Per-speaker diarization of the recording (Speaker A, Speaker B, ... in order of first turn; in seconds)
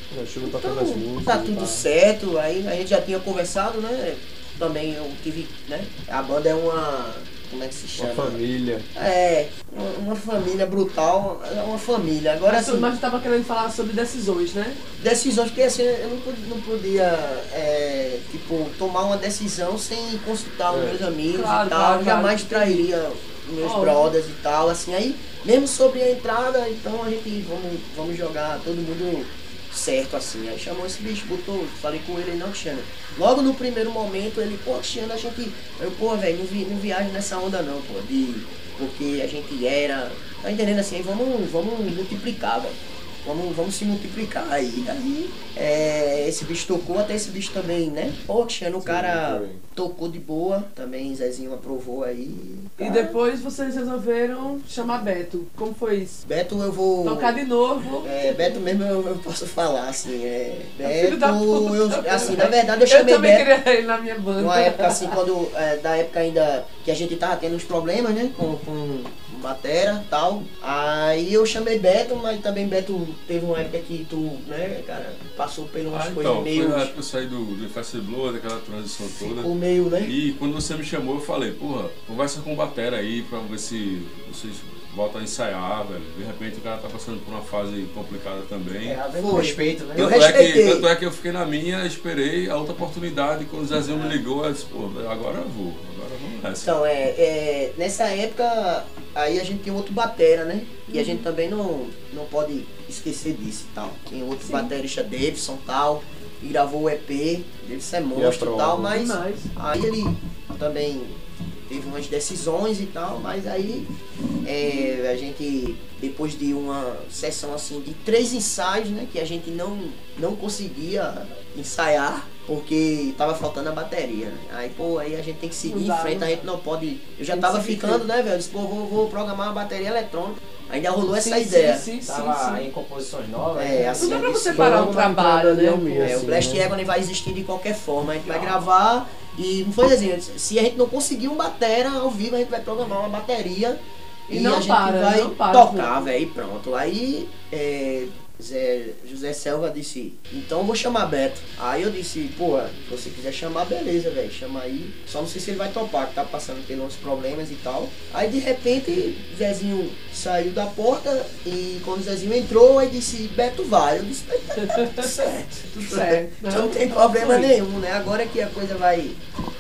Speaker A: 0.1-1.9, 8.0-8.9, 20.7-21.0, 48.8-49.6, 108.1-108.9, 134.5-136.7
Speaker B: 0.4-8.4, 8.9-12.9, 15.0-53.1, 56.2-57.4, 58.0-63.5, 64.4-76.9, 79.0-80.2, 89.0-90.9, 93.9-94.2, 96.6-111.2, 111.7-113.9, 114.4-131.9, 133.6-134.9, 136.0-169.2
Speaker C: 12.5-14.8, 21.3-22.9, 23.6-24.1, 52.8-56.2, 57.0-58.6, 60.9-65.2, 100.9-101.2, 104.4-104.7, 108.9-109.5, 125.6-126.4, 127.3-128.1, 131.1-132.6, 134.0-136.3, 144.3-146.1, 164.6-165.1, 165.7-167.6
Speaker D: 75.9-79.5, 80.0-89.0, 90.0-96.7
Speaker E: 88.8-90.3, 132.0-134.9